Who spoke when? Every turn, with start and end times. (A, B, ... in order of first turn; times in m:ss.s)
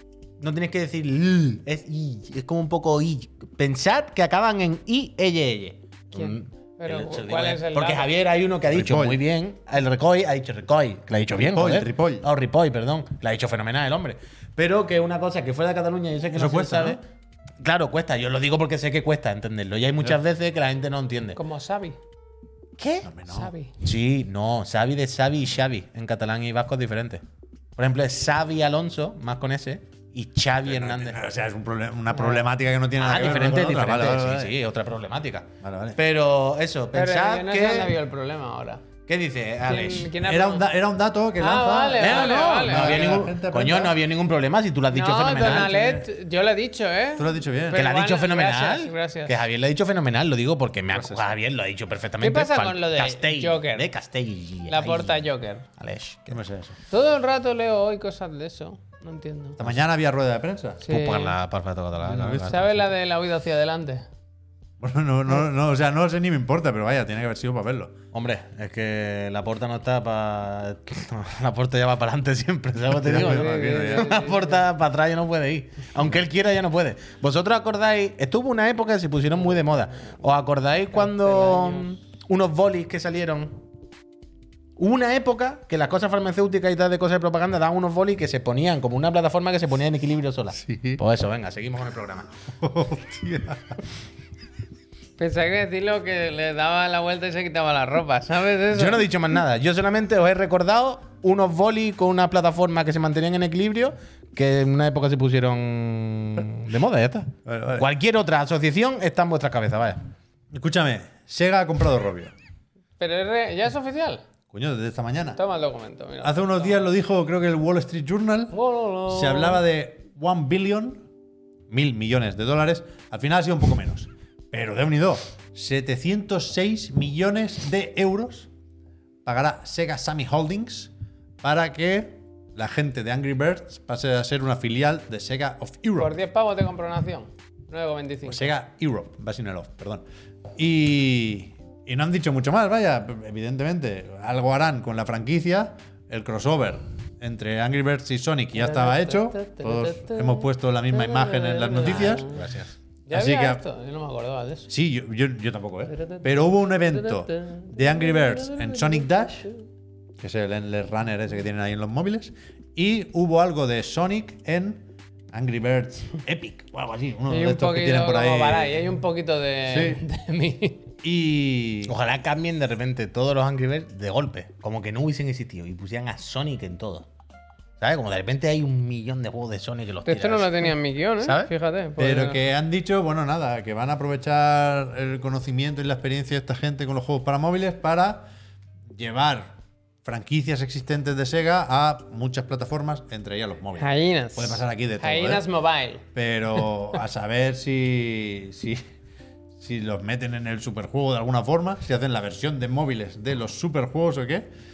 0:00.4-0:17.0 A
0:06.1-0:08.1 B
0:08.7-0:09.2 C
0:11.5-0:12.3 C
0:16.3-0:17.0 C
0:17.6-0:21.4 A
0:21.4-0:22.0 B
0:22.8-0:23.1 A
0:23.0-0:23.5 C
0:23.2-0:23.7 B
0:23.8-0:27.2 A
0:27.8-0:31.2 A
0:30.6-0:34.5 C
0:32.1-0:32.4 B
0:33.0-0:38.0 A
0:35.6-0:36.0 C
0:36.9-0:38.8 B
0:39.1-0:40.1 A
0:39.6-0:40.7 B
0:40.2-0:44.0 C
0:41.4-0:43.2 B
0:42.0-0:45.8 A
0:44.9-0:49.4 B
0:45.5-0:46.0 C
0:47.2-0:47.8 C
0:47.7-0:55.2 A
0:50.9-0:51.3 C
0:52.2-0:53.9 B
0:54.7-0:55.6 B
0:55.8-0:56.4 A
0:56.3-0:56.8 C
0:56.9-0:59.6 B
0:59.6-1:00.9 C
1:00.8-1:01.4 B
1:00.9-1:02.7 A
1:02.0-1:02.8 C
1:02.3-1:04.0 B
1:04.8-1:08.0 C
1:08.1-1:23.6 A
1:12.9-1:14.2 C
1:13.1-1:14.6 B
1:20.9-1:21.8 B
1:24.8-1:32.3 A
1:30.6-1:31.0 C
1:32.6-1:33.8 C
1:35.2-1:39.1 B
1:38.7-1:50.0 A
1:47.4-1:47.9 C
1:50.5-1:52.3 C
1:53.0-1:54.2 B
1:54.5-1:55.4 C
1:55.4-1:56.8 B
1:56.2-2:01.0 C
1:58.5-1:59.6 B
2:01.7-2:08.5 C
2:09.2-2:16.1 C
2:16.0-2:18.5 B
2:18.3-2:20.0 C
2:20.6-2:32.3 C
2:28.6-2:32.4 B
2:31.8-2:32.7 A
2:33.1-2:34.7 B
2:33.1-2:33.6 C
2:34.7-2:39.5 C
2:35.9-2:36.2 B
2:36.9-2:39.5 B
2:40.2-2:48.8 C
2:47.3-2:50.8 B
2:49.7-2:50.0 C
2:51.0-2:51.9 C
2:51.8-2:57.1 A
2:57.8-3:01.5 A
3:00.0-3:02.4 B
3:02.0-3:08.3 C
3:08.9-3:09.5 C
3:10.0-3:15.4 C
3:13.8-3:16.0 B
3:16.1-3:18.8 C
3:19.6-3:24.5 C